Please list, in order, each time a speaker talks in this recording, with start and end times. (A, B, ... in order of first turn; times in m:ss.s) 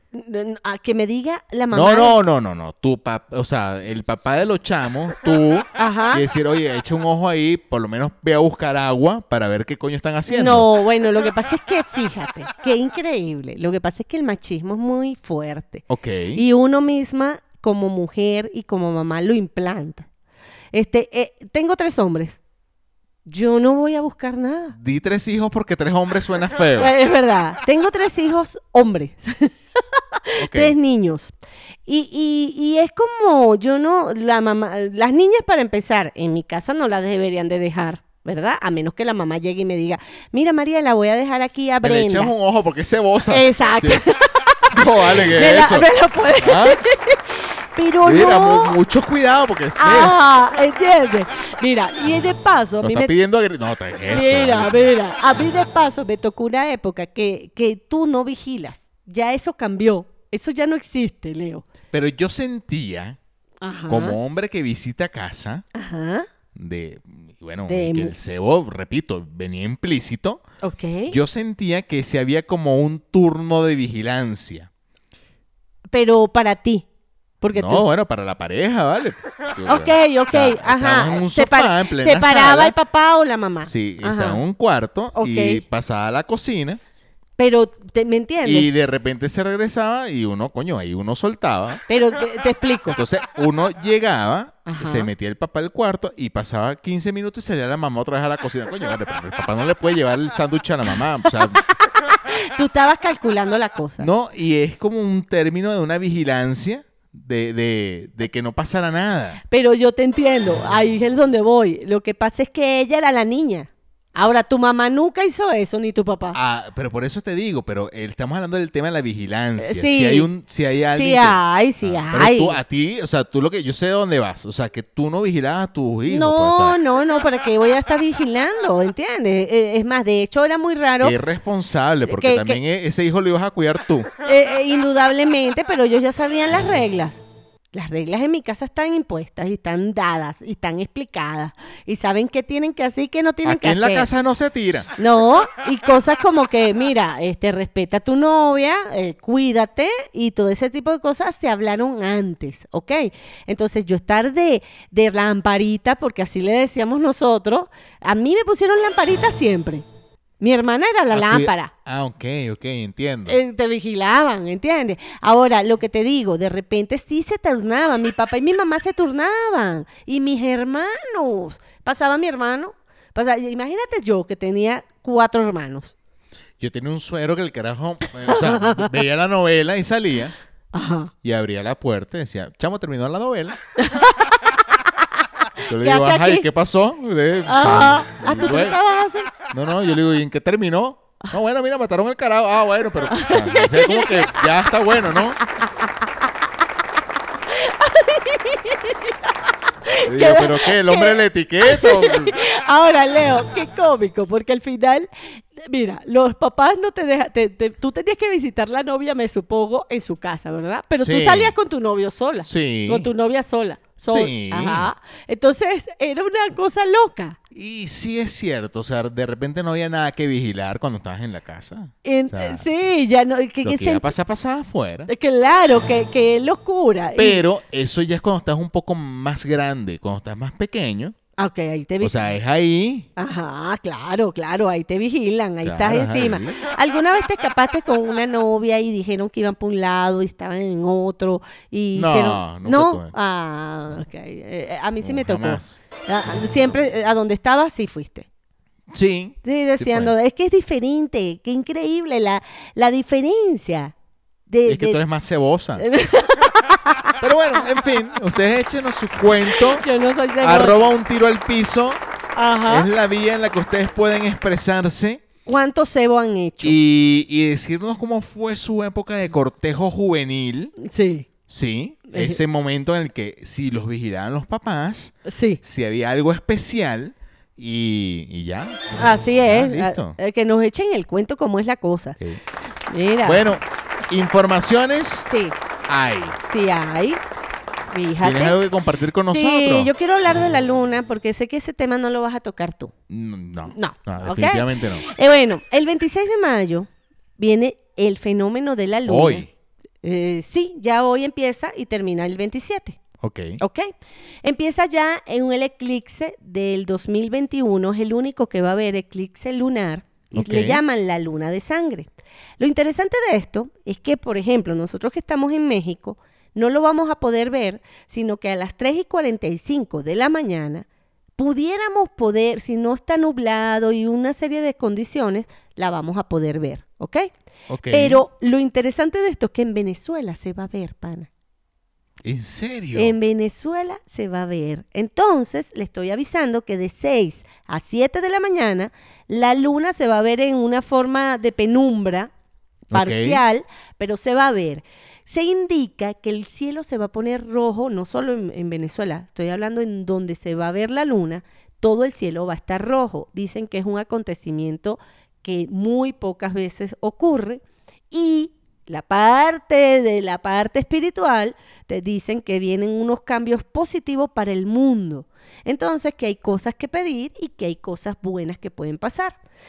0:00.1-0:02.2 A
0:01.7-0:10.7 B
0:05.8-0:06.2 A
0:10.3-0:20.1 A
0:15.9-0:16.4 B
0:20.7-0:22.4 A
0:23.2-0:24.8 A
0:24.7-0:26.9 B
0:26.8-0:31.3 A
0:30.4-0:30.8 B
0:31.9-0:42.3 A
0:41.8-0:44.0 B
0:43.3-0:48.8 A
0:44.7-0:46.8 B
0:48.0-0:50.2 B
0:49.8-0:53.1 A
0:52.8-0:54.9 B
0:54.1-1:01.6 A
1:01.9-1:03.2 B
1:03.6-1:04.2 A
1:03.9-1:05.6 B
1:05.7-1:06.3 A
1:06.6-1:10.4 B
1:07.7-1:08.2 A
1:10.6-1:11.2 A
1:11.1-1:14.7 B
1:15.9-1:16.8 A
1:17.4-1:17.8 A
1:17.5-1:22.8 B
1:19.6-1:24.4 A
1:23.6-1:26.8 B
1:25.2-1:25.6 A
1:27.4-1:28.7 A
1:28.4-1:31.8 B
1:31.9-1:33.0 A
1:32.9-1:41.6 B
1:34.6-1:35.1 A
1:42.3-1:44.1 A
1:44.0-1:49.4 B
1:49.5-1:56.4 A
1:56.3-2:06.8 B
1:59.6-2:00.3 A
2:00.9-2:02.6 A
2:06.1-2:11.2 A
2:11.0-2:14.1 B
2:12.0-2:12.6 A
2:14.2-2:17.2 A
2:17.7-2:24.1 A
2:23.4-2:24.9 B
2:25.0-2:39.8 A
2:40.4-2:41.7 A
2:41.1-2:43.4 B
2:43.3-2:55.9 A
2:56.6-3:00.3 B
2:58.3-2:58.9 A
3:00.7-3:01.1 A
3:01.2-3:03.6 B
3:03.8-3:04.3 A
3:05.7-3:08.8 B
3:05.7-3:06.5 A
3:07.5-3:09.3 A
3:09.5-3:15.4 B
3:13.1-3:14.5 A
3:17.5-3:19.1 A
3:19.9-3:37.4 A
3:20.1-3:22.4 B
3:31.0-3:31.5 B
3:32.5-3:33.1 B
3:34.1-3:34.9 B
3:37.5-3:42.7 B
3:42.0-3:44.1 A
3:43.6-3:45.1 B
3:45.1-3:47.4 A
3:47.2-3:51.2 B
3:51.4-3:52.2 A
3:52.0-3:53.1 B
3:53.2-4:08.3 A
3:55.6-3:56.6 B
4:02.0-4:03.1 B
4:05.0-4:05.8 B
4:08.9-4:10.2 B
4:09.4-4:13.9 A
4:14.5-4:15.0 A
4:14.6-4:15.8 B
4:15.8-4:17.2 A
4:17.2-4:19.9 B
4:19.5-4:20.8 A
4:20.4-4:22.0 B
4:22.4-4:22.9 A
4:22.7-4:25.2 B
4:25.5-4:26.8 A
4:26.6-4:30.7 B
4:30.8-4:31.3 A
4:31.5-4:38.8 B
4:32.1-4:32.4 A
4:35.3-4:35.6 A
4:39.0-4:42.2 A
4:39.5-4:40.2 B
4:42.9-4:43.4 A
4:43.2-4:45.3 B
4:45.3-4:45.6 A
4:45.9-4:46.4 B
4:46.5-4:47.2 A
4:47.9-4:48.6 A
4:48.2-4:49.9 B
4:49.3-4:52.9 A
4:53.1-4:55.0 B
4:53.7-4:59.5 A
4:59.1-4:59.5 B
5:00.0-5:03.0 A
5:03.2-5:03.6 B
5:03.6-5:03.9 A
5:04.4-5:20.9 A
5:10.3-5:10.8 B
5:21.4-5:27.3 A
5:27.7-5:28.2 B
5:27.9-5:31.3 A
5:32.2-5:33.2 B
5:33.0-5:42.3 A
5:42.9-6:09.4 A
5:42.9-5:43.4 B